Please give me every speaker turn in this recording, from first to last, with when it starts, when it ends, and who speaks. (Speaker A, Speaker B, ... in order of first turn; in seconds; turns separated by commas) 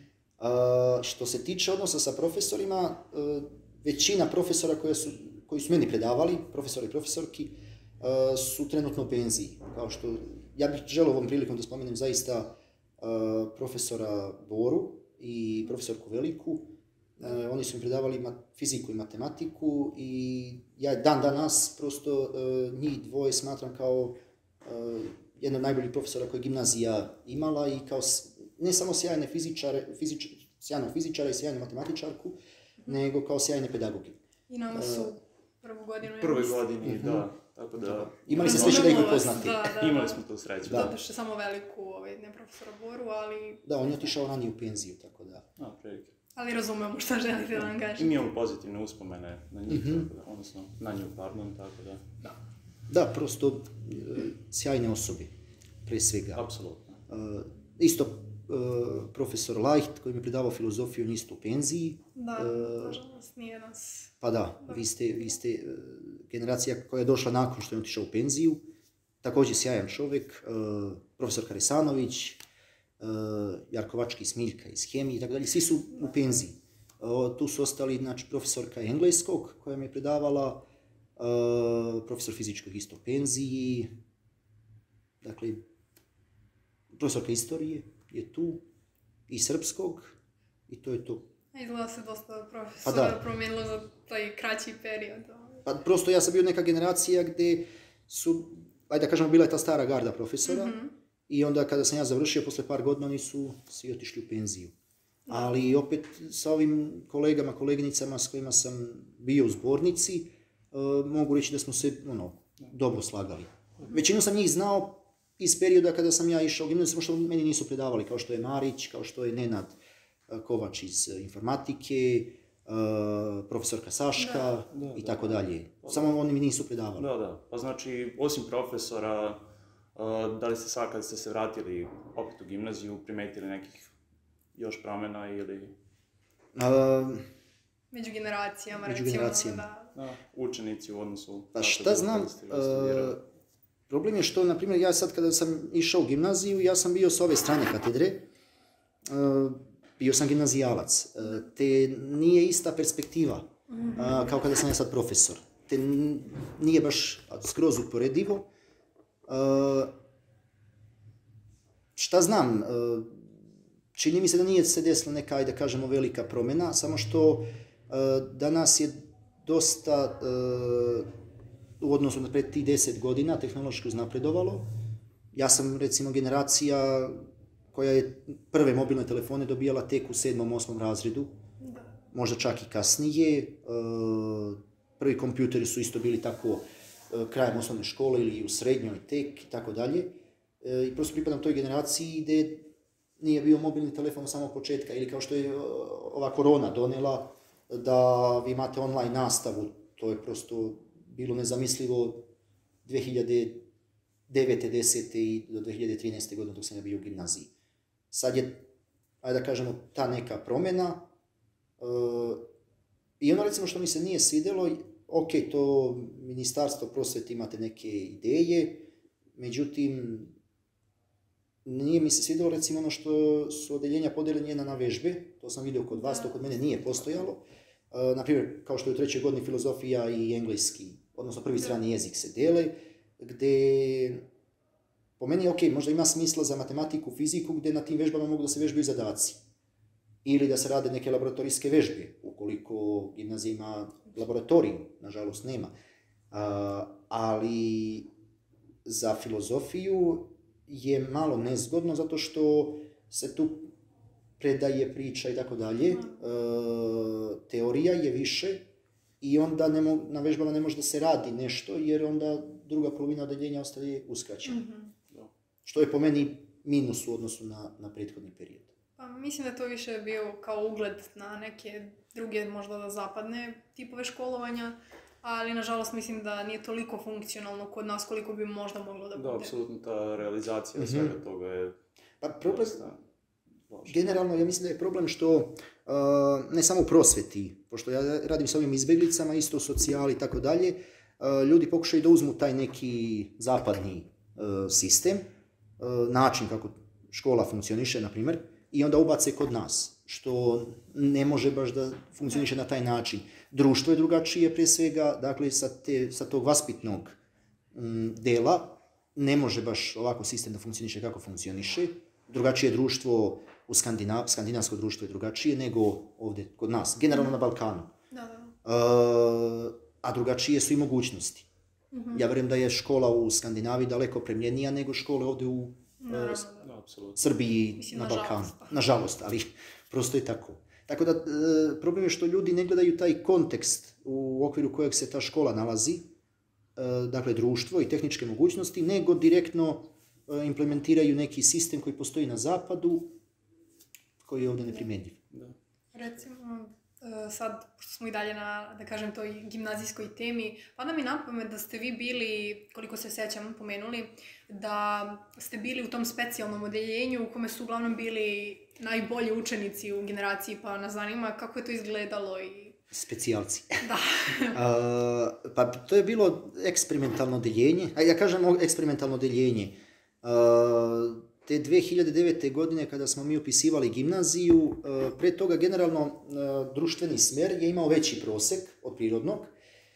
Speaker A: 0.4-34.2, Speaker B: 34.5-36.6, Speaker A: 34.7-35.1, Speaker C: 36.1-40.9, Speaker A: 36.8-37.2, Speaker A: 37.8-39.8, Speaker B: 38.4-44.1, Speaker A: 40.6-40.9, Speaker A: 43.6-45.5, Speaker C: 45.6-46.1, Speaker B: 46.4-48.2, Speaker C: 47.9-52.1, Speaker A: 49.7-50.1, Speaker A: 52.9-55.3, Speaker A: 55.8-56.4, Speaker C: 56.3-57.0, Speaker A: 57.1-63.0, Speaker B: 62.1-64.1, Speaker A: 64.2-68.6, Speaker A: 69.2-72.4, Speaker A: 73.0-80.7, Speaker A: 81.2-83.9, Speaker A: 85.2-85.6, Speaker A: 86.9-88.6, Speaker A: 89.3-90.2, Speaker A: 90.7-91.2, Speaker B: 91.5-95.6, Speaker A: 92.8-93.2, Speaker A: 95.6-100.8, Speaker B: 100.4-100.9, Speaker A: 101.3-104.7, Speaker B: 105.3-105.6, Speaker A: 105.3-119.8, Speaker A: 120.3-127.1, Speaker B: 124.2-124.5, Speaker C: 124.7-126.1, Speaker C: 127.0-129.4, Speaker C: 129.9-133.9, Speaker C: 134.5-135.7, Speaker A: 136.5-137.2, Speaker B: 137.9-139.9, Speaker A: 138.8-139.7, Speaker C: 139.9-143.2, Speaker A: 141.5-143.2, Speaker A: 143.9-148.2, Speaker A: 149.1-158.5, Speaker B: 153.7-154.4, Speaker A: 159.3-159.9, Speaker A: 161.9-163.2, Speaker A: 163.9-171.1, Speaker A: 171.8-174.7, Speaker A: 175.3-177.1, Speaker A: 177.7-181.3, Speaker B: 181.6-181.9, Speaker A: 182.1-192.7, Speaker A: 193.2-202.3, Speaker A: 202.8-203.7, Speaker A: 204.3-207.5, Speaker A: 208.1-208.7, Speaker A: 209.2-211.1, Speaker A: 211.8-212.5, Speaker A: 213.2-220.3, Speaker A: 221.6-234.2, Speaker A: 235.2-239.4, Speaker A: 240.2-245.7, Speaker A: 246.3-248.1, Speaker A: 248.8-253.7, Speaker A: 254.4-258.7, Speaker B: 255.9-256.2, Speaker A: 259.2-264.6, Speaker B: 264.4-264.9, Speaker A: 265.6-268.7, Speaker B: 269.0-279.5, Speaker C: 279.1-281.7, Speaker A: 280.7-281.1, Speaker A: 282.2-282.8, Speaker C: 282.4-283.0, Speaker C: 283.7-284.1, Speaker A: 283.9-295.2, Speaker A: 295.8-307.2, Speaker A: 307.7-317.9, Speaker B: 318.1-318.5, Speaker A: 318.6-321.5, Speaker B: 321.9-322.2, Speaker A: 322.1-326.5, Speaker B: 326.0-326.7, Speaker C: 326.6-327.2, Speaker A: 327.2-336.0, Speaker B: 327.8-328.7, Speaker A: 336.8-343.1, Speaker A: 344.2-345.2, Speaker B: 345.9-362.8, Speaker A: 362.9-363.8, Speaker B: 363.8-364.6, Speaker A: 364.5-379.5